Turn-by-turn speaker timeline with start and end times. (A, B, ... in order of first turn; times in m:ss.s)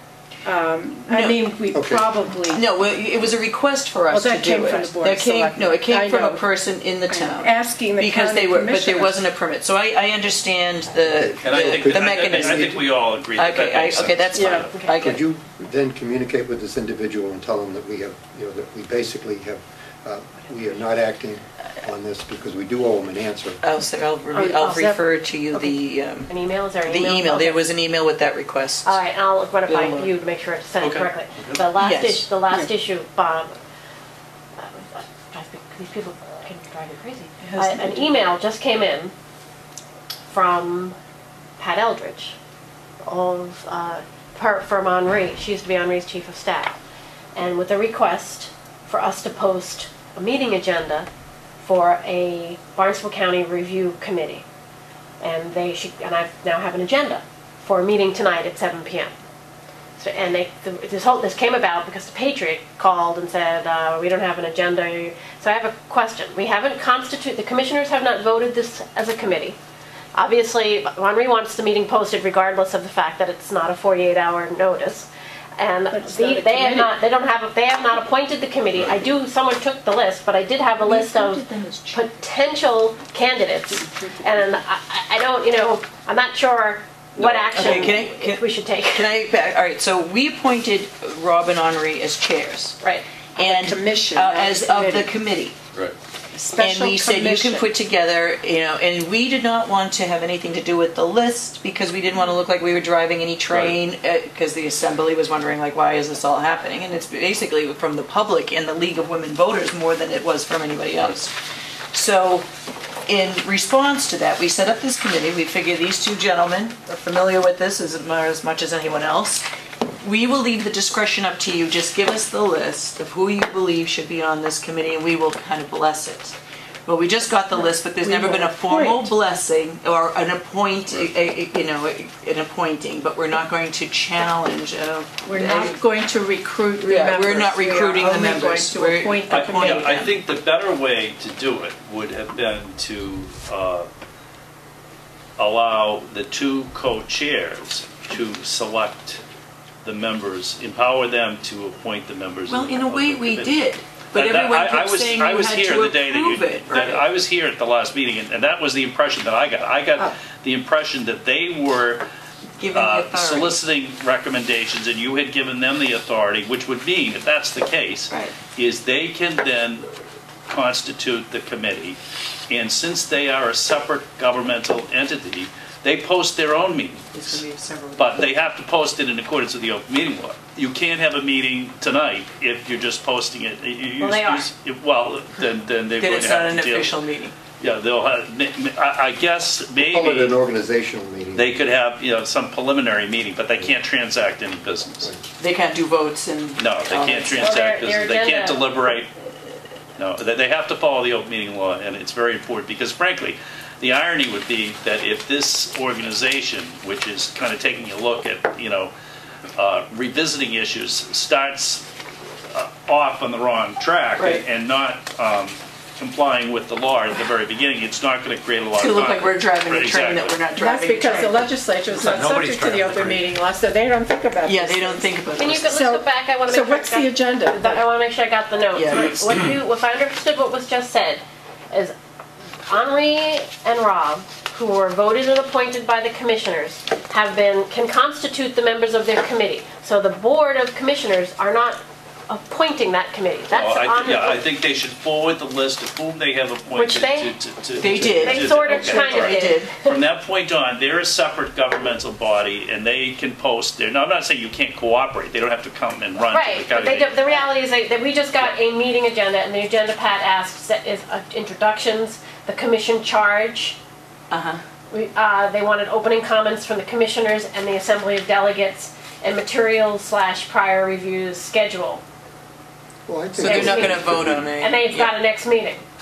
0:00.4-0:02.6 A
0:01.1-0:01.5 B
0:01.7-0:02.1 C
0:02.5-0:12.8 B
0:04.1-0:06.5 A
0:07.1-0:09.3 A
0:10.9-0:12.8 C
0:11.4-0:14.7 D
0:13.4-0:15.2 B
0:14.4-0:14.7 A
0:14.7-0:15.0 E
0:15.0-0:23.6 C
0:23.6-0:26.3 B
0:24.3-0:25.7 A
0:26.3-0:27.7 E
0:26.9-0:29.0 B
0:28.8-0:33.6 E
0:29.7-0:30.1 B
0:30.8-0:31.6 D
0:31.8-0:32.3 B
0:34.6-0:39.1 E
0:37.4-0:38.2 B
0:40.3-0:41.0 E
0:41.6-0:42.4 E
0:43.0-0:46.8 E
0:47.4-0:51.1 E
0:51.6-0:54.4 E
0:55.2-0:59.1 E
1:00.0-1:09.6 E
1:10.2-1:29.2 E
1:15.9-1:17.0 A
1:18.8-1:19.0 D
1:20.8-1:22.2 B
1:27.2-1:27.9 D
1:27.2-1:32.8 B
1:32.8-1:33.1 E
1:33.4-1:35.6 B
1:33.4-1:35.1 A
1:36.3-1:37.7 A
1:36.6-1:51.3 B
1:43.5-1:43.8 D
1:51.9-1:52.5 B
1:53.1-1:59.4 B
2:00.0-2:15.8 B
2:07.5-2:09.1 A
2:15.2-2:20.0 A
2:16.8-2:20.2 B
2:19.3-2:23.9 D
2:25.4-2:29.2 D
2:29.8-2:33.6 D
2:32.5-2:37.0 B
2:34.1-2:42.0 D
2:42.6-2:43.6 B
2:42.7-2:49.9 D
2:48.1-2:48.4 B
2:50.5-2:57.4 D
2:57.1-2:58.2 B
2:58.0-3:07.0 D
3:04.0-3:04.5 E
3:06.0-3:07.4 B
3:07.6-3:10.4 D
3:09.8-3:11.5 C
3:11.4-3:15.1 D
3:15.4-3:17.6 B
3:16.6-3:19.1 D
3:17.4-3:18.7 E
3:20.0-3:28.9 D
3:29.6-3:31.9 D
3:32.5-3:40.4 D
3:34.2-3:34.4 B
3:38.8-3:41.4 B
3:40.6-3:47.8 A
3:41.9-3:43.2 D
3:44.4-3:45.7 B
3:45.4-3:51.9 E
3:48.7-3:49.4 B
3:48.9-3:49.4 D
3:52.7-4:04.4 E
4:03.5-4:17.3 D
4:06.7-4:07.3 E
4:07.8-4:09.8 B
4:08.2-4:10.0 E
4:16.3-4:23.8 E
4:24.3-4:24.6 B
4:24.9-4:32.0 E
4:33.1-4:34.5 C
4:33.4-4:35.8 E
4:33.4-4:35.2 B